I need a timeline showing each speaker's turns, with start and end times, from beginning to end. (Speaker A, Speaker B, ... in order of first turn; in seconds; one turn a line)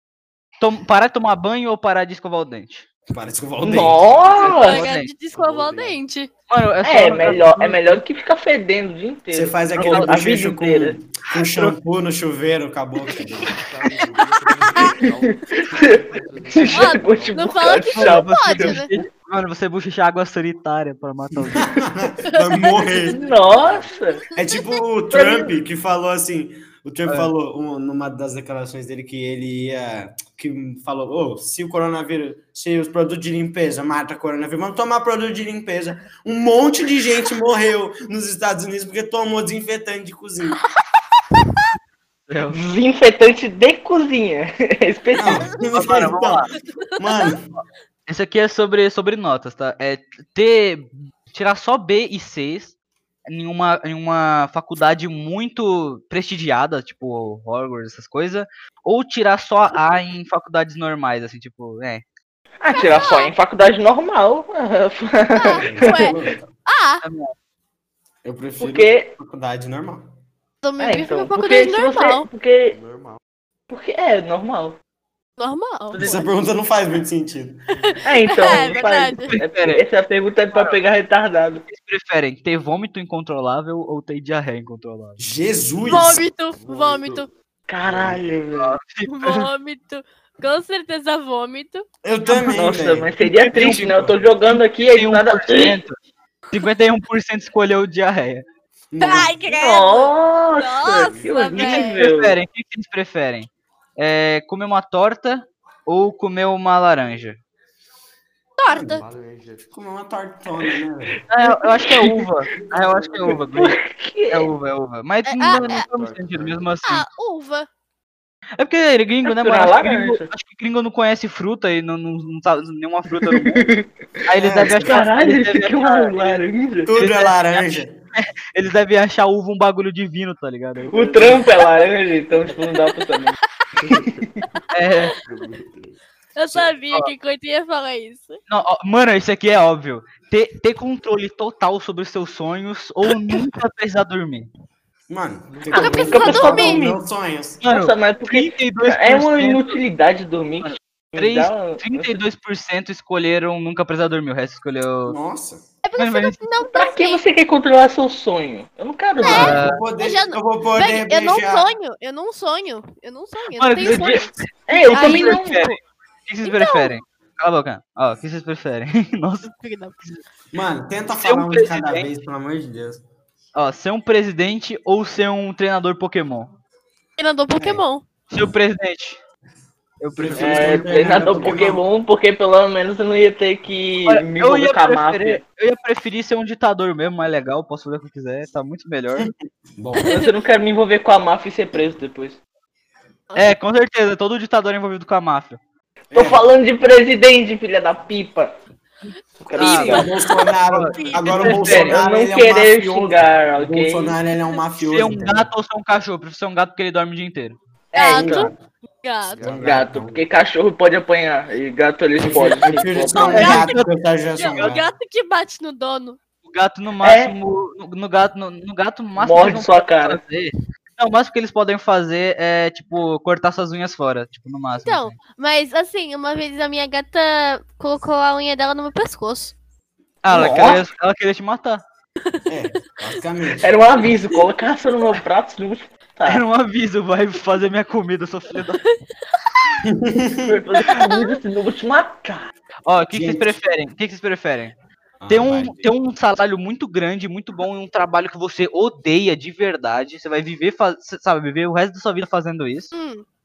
Speaker A: 0.6-2.8
Speaker B: 3.1-4.2
Speaker C: 3.6-4.8
Speaker A: 4.4-5.1
Speaker D: 4.5-6.3
Speaker E: 5.3-6.0
Speaker A: 6.5-8.0
Speaker C: 6.8-10.9
Speaker B: 9.3-13.5
Speaker A: 9.8-10.2
Speaker A: 11.4-11.8
Speaker E: 13.3-17.7
Speaker D: 14.7-14.9
Speaker C: 15.3-16.0
Speaker C: 16.5-18.8
Speaker D: 16.7-18.9
Speaker A: 17.9-21.7
Speaker B: 21.4-23.2
Speaker D: 22.2-23.0
Speaker E: 22.9-24.2
Speaker C: 23.1-24.2
Speaker D: 24.3-24.7
Speaker B: 24.3-40.6
Speaker C: 25.1-25.5
Speaker D: 41.3-41.6
Speaker A: 42.3-42.6
Speaker C: 42.5-45.5
Speaker B: 45.2-46.5
Speaker D: 45.3-45.6
Speaker A: 45.7-46.5
Speaker D: 46.8-47.4
Speaker B: 47.0-47.5
Speaker A: 48.1-52.7
Speaker A: 53.3-62.0
Speaker C: 62.6-66.1
Speaker D: 62.7-63.3
Speaker D: 65.3-67.0
Speaker B: 65.6-66.4
Speaker A: 67.0-67.3
Speaker B: 68.2-70.1
Speaker C: 68.6-69.1
Speaker D: 70.6-72.3
Speaker C: 70.8-72.8
Speaker E: 72.7-73.2
Speaker C: 73.7-74.8
Speaker D: 75.4-76.2
Speaker C: 75.9-76.2
Speaker B: 76.0-77.6
Speaker E: 77.7-78.9
Speaker D: 77.9-79.3
Speaker C: 78.0-81.6
Speaker A: 79.3-79.8
Speaker A: 81.7-85.2
Speaker B: 85.2-86.2
Speaker D: 85.8-87.3
Speaker E: 86.5-87.3
Speaker C: 87.7-88.8
Speaker B: 87.8-88.2
Speaker E: 87.8-88.1
Speaker A: 88.6-89.5
Speaker D: 89.0-91.8
Speaker B: 92.0-94.2
Speaker C: 92.3-95.8
Speaker A: 93.5-93.9
Speaker A: 94.5-95.9
Speaker A: 96.5-98.4
Speaker B: 98.9-99.3
Speaker D: 99.0-102.0
Speaker C: 99.5-102.4
Speaker E: 101.0-101.5
Speaker A: 101.5-107.4
Speaker D: 108.6-109.0
Speaker B: 108.7-109.0
Speaker E: 108.9-109.7
Speaker B: 109.7-111.2
Speaker A: 111.3-113.8
Speaker C: 111.4-112.2
Speaker C: 113.5-114.5
Speaker A: 114.3-117.0
Speaker D: 115.3-115.8
Speaker E: 115.6-116.7
Speaker D: 116.8-117.7
Speaker A: 118.6-123.7
Speaker C: 119.2-120.3
Speaker C: 123.2-123.8
Speaker A: 124.2-126.4
Speaker B: 124.4-124.9
Speaker C: 124.6-126.9
Speaker B: 126.8-127.9
Speaker A: 126.9-131.3
Speaker E: 130.9-131.4
Speaker C: 130.9-133.4
Speaker E: 133.8-134.6
Speaker C: 133.9-134.4
Speaker A: 134.7-135.1
Speaker E: 135.2-136.0
Speaker D: 136.3-138.4
Speaker A: 138.5-144.5
Speaker B: 145.1-147.6
Speaker E: 145.5-146.4
Speaker D: 145.7-146.8
Speaker C: 145.7-147.0
Speaker A: 147.6-149.8
Speaker C: 147.7-152.2
Speaker A: 150.6-155.2
Speaker B: 155.1-155.6
Speaker D: 155.8-157.2
Speaker A: 156.0-156.4
Speaker C: 156.7-159.6
Speaker D: 159.2-165.8
Speaker B: 159.2-161.7
Speaker A: 159.3-159.8
Speaker A: 163.5-169.5
Speaker C: 163.8-165.7
Speaker D: 166.4-167.0
Speaker D: 169.4-170.0
Speaker B: 170.5-173.0
Speaker A: 171.2-172.1
Speaker A: 173.5-176.5
Speaker D: 177.2-178.0
Speaker B: 177.6-177.8
Speaker A: 178.3-179.2
Speaker A: 180.0-181.4
Speaker B: 180.1-181.8
Speaker C: 180.3-185.4
Speaker A: 184.1-189.3
Speaker B: 189.2-190.2
Speaker D: 190.0-190.3
Speaker C: 190.1-192.4
Speaker A: 193.3-195.6
Speaker B: 196.1-196.4
Speaker C: 196.1-198.5
Speaker C: 199.4-200.1
Speaker A: 199.6-200.1
Speaker D: 199.6-201.7
Speaker B: 199.6-205.5
Speaker A: 200.7-202.0
Speaker C: 201.6-204.2
Speaker A: 204.8-207.6
Speaker C: 207.9-208.5
Speaker D: 207.9-209.4
Speaker B: 208.1-208.6
Speaker E: 209.2-209.8
Speaker B: 209.4-210.2
Speaker C: 209.5-213.5
Speaker B: 212.2-214.9
Speaker D: 213.1-213.8
Speaker A: 213.3-213.9
Speaker D: 214.4-216.2
Speaker A: 214.4-214.8
Speaker A: 216.4-225.2
Speaker C: 217.0-217.3
Speaker C: 219.2-220.2
Speaker D: 224.8-229.5
Speaker A: 230.2-231.8
Speaker C: 230.3-230.8
Speaker B: 232.5-234.1
Speaker C: 233.6-236.4
Speaker A: 236.2-238.8
Speaker B: 239.8-240.6
Speaker C: 240.4-242.5
Speaker D: 240.9-241.4
Speaker A: 242.8-244.7
Speaker B: 243.1-243.6
Speaker B: 245.2-245.8
Speaker A: 245.3-252.9
Speaker D: 252.9-253.2